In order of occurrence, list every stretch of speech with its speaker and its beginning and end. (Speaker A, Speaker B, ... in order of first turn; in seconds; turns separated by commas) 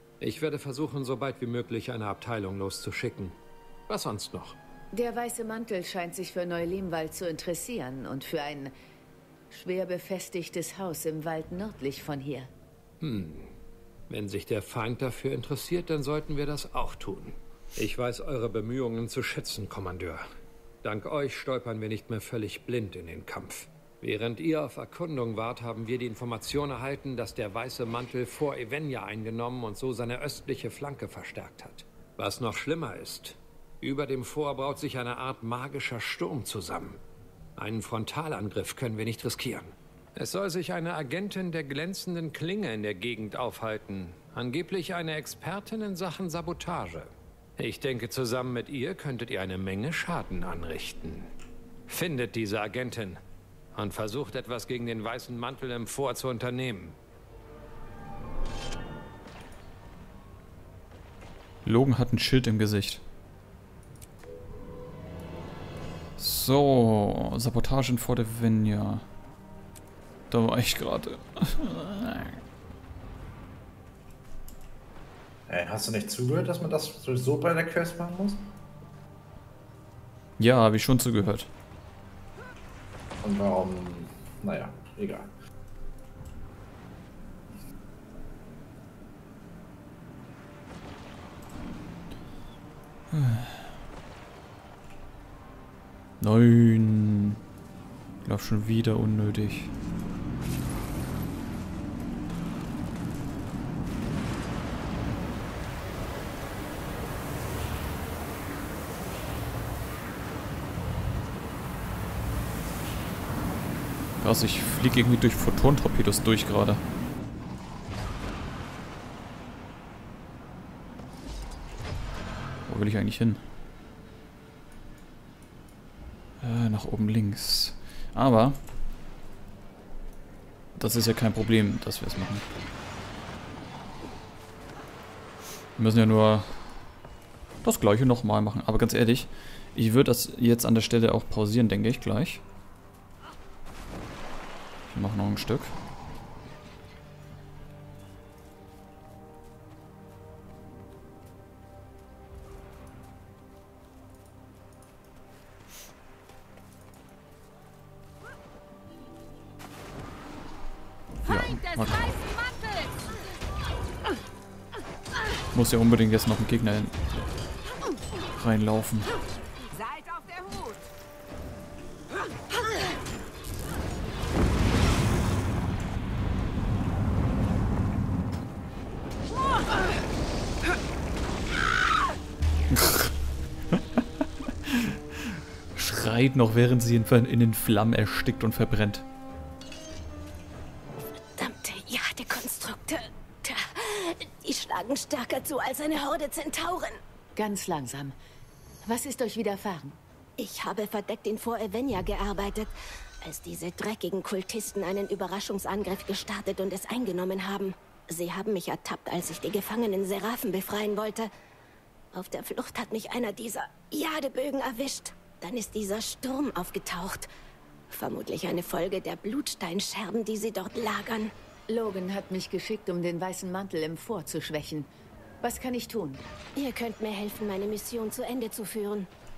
Speaker A: 0.2-3.4, Speaker A: 3.9-4.6, Speaker B: 4.9-8.7, Speaker B: 9.5-12.5, Speaker A: 13.0-13.5, Speaker A: 14.1-20.2, Speaker A: 20.8-37.0, Speaker A: 37.6-51.3, Speaker A: 51.9-53.2, Speaker A: 53.7-57.0, Speaker C: 61.6-63.0, Speaker C: 66.2-69.0, Speaker C: 70.3-72.4, Speaker D: 75.5-78.5, Speaker C: 80.4-81.5, Speaker D: 83.2-85.3, Speaker C: 93.1-93.7, Speaker C: 96.2-97.4, Speaker C: 98.2-99.7, Speaker C: 114.2-116.8, Speaker C: 122.7-123.4, Speaker C: 126.4-128.6, Speaker C: 130.8-132.4, Speaker C: 135.8-136.6, Speaker C: 137.6-142.4, Speaker C: 144.9-145.8, Speaker C: 161.2-162.3, Speaker C: 165.5-166.9, Speaker C: 168.3-169.1, Speaker C: 182.7-183.1, Speaker C: 184.6-189.0, Speaker E: 191.4-197.0, Speaker B: 197.3-198.1, Speaker B: 198.8-200.0, Speaker E: 200.4-211.3, Speaker E: 212.1-217.3, Speaker E: 217.9-221.3, Speaker B: 221.7-224.9, Speaker B: 225.4-226.2, Speaker E: 226.6-229.1